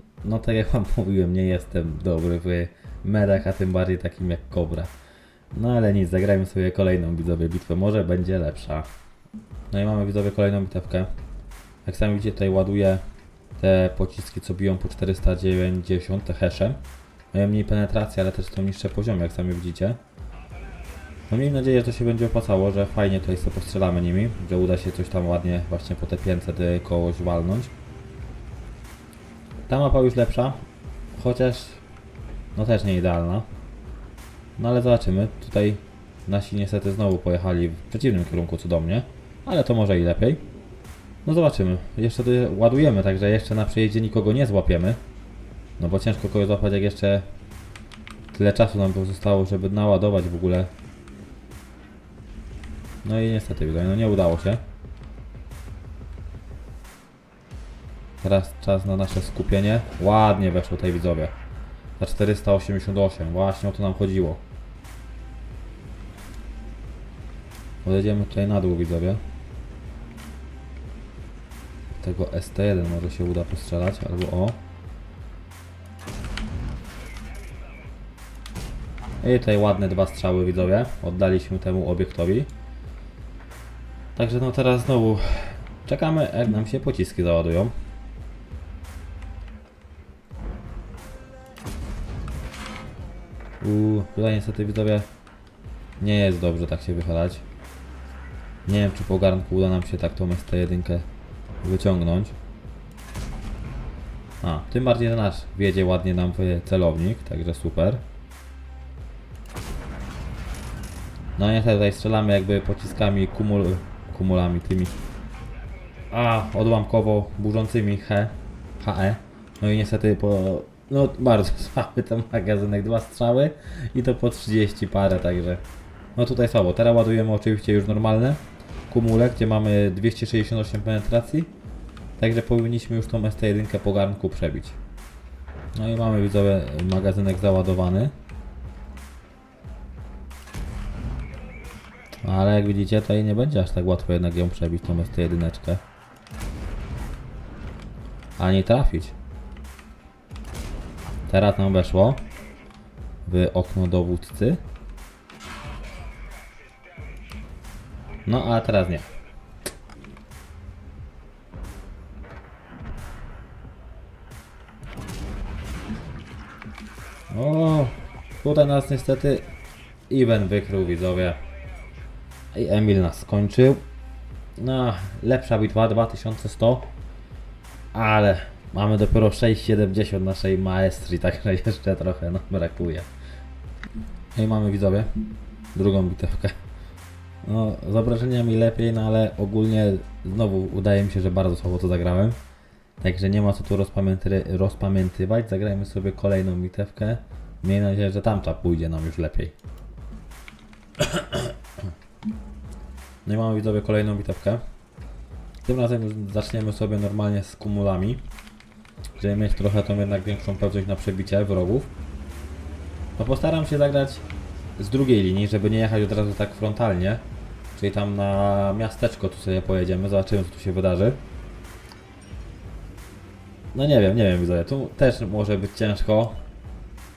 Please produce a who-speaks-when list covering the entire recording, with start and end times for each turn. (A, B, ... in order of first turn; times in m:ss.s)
0:00.2-0:04.9 A
0:05.5-0:08.9 A
0:09.7-0:11.1 A
0:11.8-0:13.0 A
0:13.6-0:16.8 A
0:17.3-0:20.0 A
0:21.3-0:27.7 A
0:29.7-0:30.6 A
0:31.1-0:31.8 A
0:32.5-0:33.5 A
0:34.6-0:40.4 A
0:41.2-0:45.0 A
0:45.8-0:47.2 A
0:48.3-0:50.7 A
0:53.0-0:54.6 A
0:58.2-1:01.3 A
1:02.0-1:04.4 A
1:07.8-1:09.2 A
1:11.9-1:14.6 A
1:19.2-1:22.5 A
1:24.2-1:27.7 A
1:33.6-1:35.1 A
1:36.0-1:37.4 A
1:38.6-1:41.1 A
1:41.6-1:42.3 A
1:44.4-1:48.0 A
1:51.4-1:54.9 A
1:56.1-2:05.6 A
2:06.2-2:11.5 A
2:12.2-2:14.8 A
2:15.8-2:18.1 A
2:22.2-2:25.8 A
2:28.4-2:29.1 A
2:31.3-2:32.2 A
2:33.2-2:34.6 A
2:38.2-2:39.1 A
2:47.3-2:49.5 A
2:50.1-2:51.4 A
2:52.5-2:53.8 A
2:54.6-2:56.9 A
2:57.9-3:03.1 A
3:04.3-3:05.1 A
3:05.7-3:06.5 A
3:07.4-3:12.4 A
3:13.0-3:19.5 A
3:21.0-3:21.5 A
3:23.2-3:24.6 A
3:25.6-3:28.2 A
3:29.2-3:31.9 A
3:33.2-3:34.2 A
3:34.8-3:37.2 A
3:37.7-3:41.2 A
3:43.7-3:46.4 A